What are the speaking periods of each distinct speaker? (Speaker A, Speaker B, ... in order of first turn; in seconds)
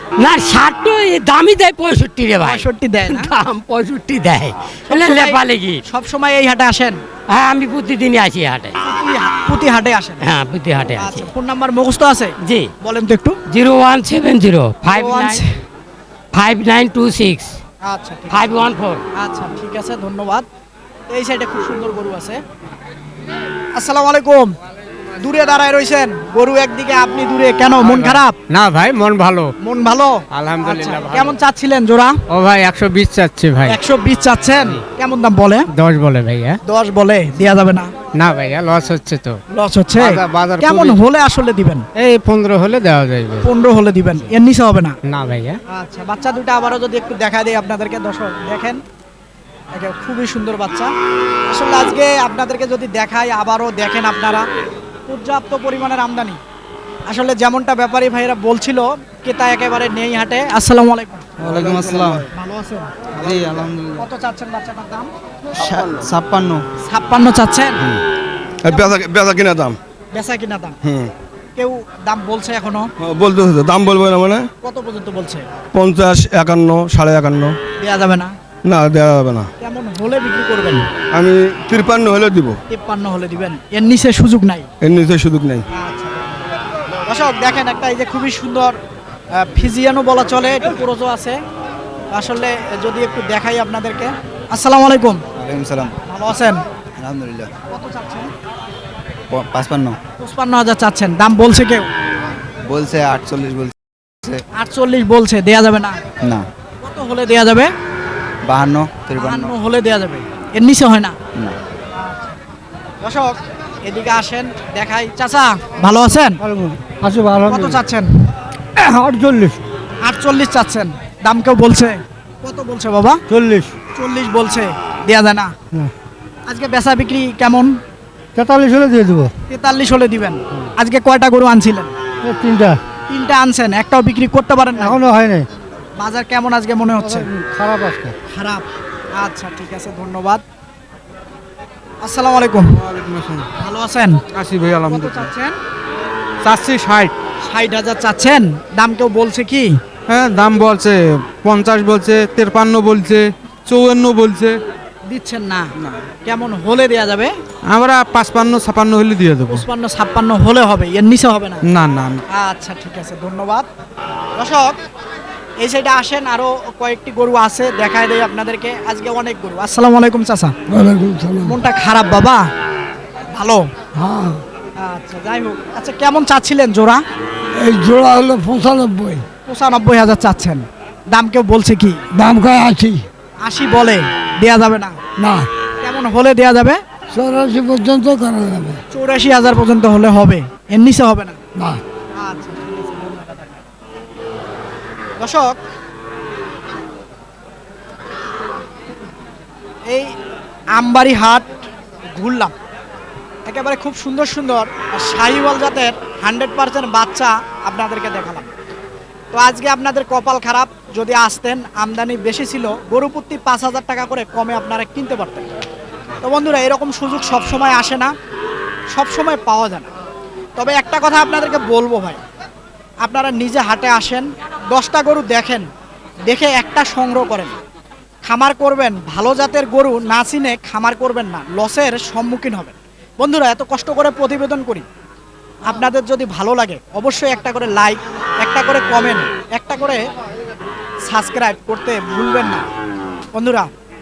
Speaker A: 0.2-5.8, 7.3-8.8, 10.2-11.3, 12.4-12.7, 13.5-15.4, 16.3-17.6, 18.3-19.0
Speaker B: 2.4-3.3, 4.9-7.0, 8.8-10.2, 11.0-13.4, 14.9-15.5, 17.9-20.5, 21.1-22.4, 23.8-24.6, 25.2-28.4, 29.6-32.2, 33.6-35.7, 36.7-37.9, 39.5-41.9, 43.4-45.0, 45.7-48.8, 49.7-50.9, 51.5-54.5, 55.1-56.4, 57.1-61.3, 62.3-62.9, 64.0-65.1, 66.8-67.8, 70.1-70.8, 71.6-72.9, 74.6-75.5, 77.8-78.3, 79.6-80.8, 82.7-84.7, 85.7-86.5, 87.1-88.8, 89.4-91.4, 92.1-95.2, 96.1-96.6, 97.7-98.3, 100.2-101.9, 104.5-106.0, 106.8-107.7, 109.2-111.2, 113.0-116.4, 117.5-118.1, 120.0-123.2, 124.0-125.5, 126.5-127.8, 129.5-131.9, 133.1-135.0, 136.0-137.3, 138.3-138.7, 139.2-140.4, 142.0-142.8, 143.6-144.2, 144.9-145.6, 147.4-149.8, 155.1-155.7, 156.2-157.3, 159.5-161.6, 162.3-163.7, 164.4-164.8, 165.6-170.6, 171.5-172.4, 173.3-173.7, 174.8-177.0, 179.5-182.0, 183.4-185.0, 185.8-186.8, 188.9-191.4, 192.2-193.6, 195.2-195.6, 199.9-200.1, 200.7-202.6, 203.5-208.5, 209.3-215.5, 216.2-218.1, 218.9-219.9, 220.6-222.2, 223.0-225.7, 226.3-227.6, 228.3-234.8, 235.7-240.0, 241.1-242.7, 243.3-243.7
Speaker C: 27.8-29.5, 30.3-31.4, 32.3-33.8, 35.7-36.6, 38.2-39.4, 40.0-41.0, 42.0-43.5, 45.1-45.6
Speaker D: 61.4-62.2, 63.2-64.0, 65.6-66.6, 142.8-143.5, 144.3-145.3, 146.4-147.1, 150.1-154.6, 157.7-159.7, 161.7-162.2
Speaker E: 61.4-62.3, 63.2-63.7, 68.6-69.8, 70.8-71.1, 73.0-74.5, 75.7-77.5, 78.7-79.5, 81.1-82.6, 84.8-85.6
Speaker F: 95.4-96.0, 97.0-97.5, 99.3-100.0, 102.7-104.4, 108.5-109.5
Speaker G: 116.4-117.8, 118.8-119.6, 123.3-123.7, 128.4-129.3, 132.2-132.8, 134.8-135.5, 137.0-138.1, 170.7-171.6, 173.9-174.4, 177.6-179.2, 182.1-183.0, 185.2-185.5, 187.1-188.8